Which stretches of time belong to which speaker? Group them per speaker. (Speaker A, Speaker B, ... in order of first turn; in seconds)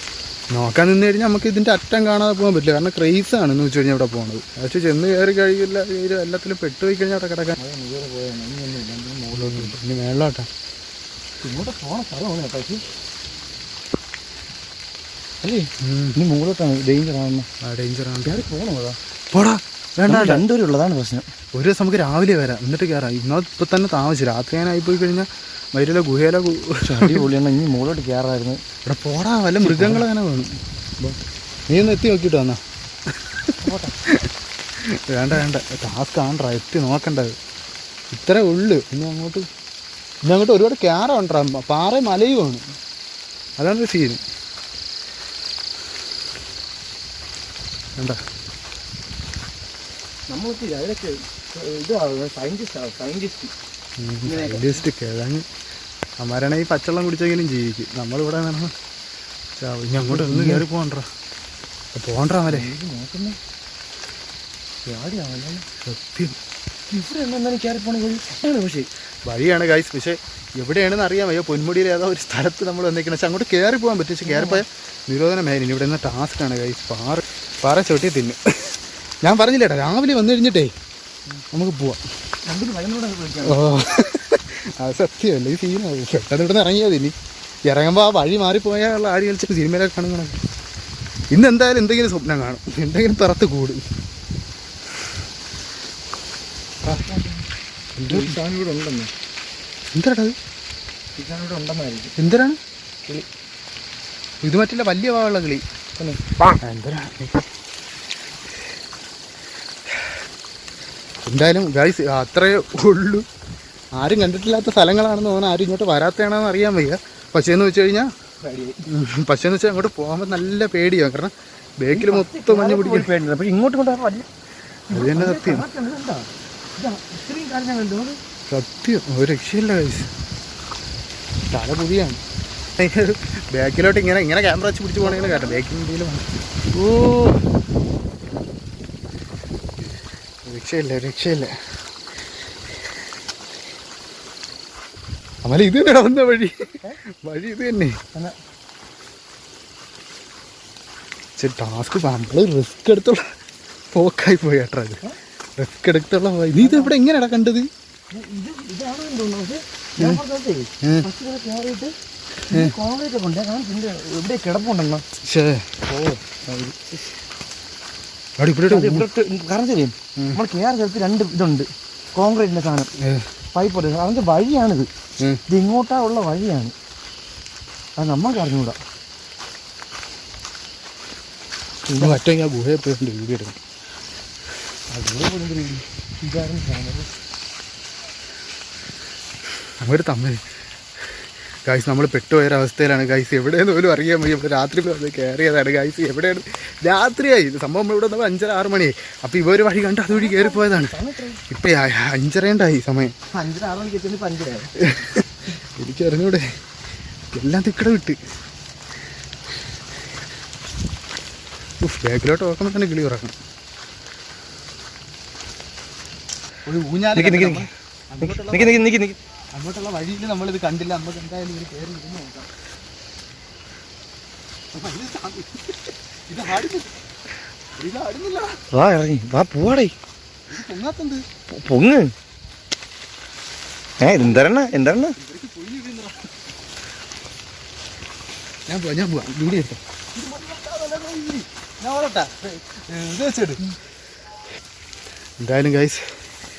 Speaker A: 0.5-7.6, 9.3-10.5, 15.8-16.2, 17.6-18.4, 19.3-20.4, 21.5-27.2, 28.9-30.6, 31.7-32.6, 34.1-37.4, 38.1-39.5, 40.2-42.8, 43.6-44.2, 54.0-55.5, 56.2-58.7, 59.6-61.1, 62.0-62.7, 65.9-66.4, 69.3-80.7, 81.5-82.0, 83.4-87.1, 87.7-90.4, 91.3-93.8, 98.0-98.4, 99.9-100.4, 102.2-102.6, 104.4-105.6, 106.6-107.5, 111.2-113.2, 114.0-118.1, 118.9-123.1, 124.9-125.7, 128.5-130.1, 131.5-132.2, 132.8-137.4, 140.5-141.5, 145.4-146.5, 147.2-147.9, 151.4-153.2, 153.9-155.0, 155.6-157.7, 165.2-165.6, 168.4-169.1, 173.0-173.2, 182.0-183.6, 189.8-190.4, 191.7-200.9, 201.5-203.1, 204.8-206.4, 207.3-208.2, 211.8-213.3, 216.7-218.9, 219.5-222.5, 224.7-226.9, 227.8-228.6, 230.5-231.2, 235.2-236.3, 238.7-243.6, 245.4-246.0
Speaker B: 7.6-9.8, 11.4-12.9, 15.4-17.5, 18.2-19.0, 20.1-21.3, 26.8-28.6, 29.6-30.1, 33.6-33.9, 50.3-53.5, 54.2-54.9, 59.9-60.7, 62.5-63.4, 64.9-65.7, 66.9-68.9, 74.2-74.6, 82.4-83.8, 96.8-97.5, 98.1-99.1, 101.2-102.1, 106.0-106.5, 118.4-118.8, 121.9-124.3, 124.9-128.2, 135.0-135.6, 156.5-156.9, 158.1-161.9, 162.5-165.1, 165.9-167.1, 168.7-172.9, 173.5-174.9, 175.5-176.7, 178.0-178.8, 181.8-182.2, 184.9-187.1, 200.1-201.4, 203.3-204.8, 217.1-217.7, 218.2-219.2, 228.7-229.9, 231.5-232.1, 234.0-235.2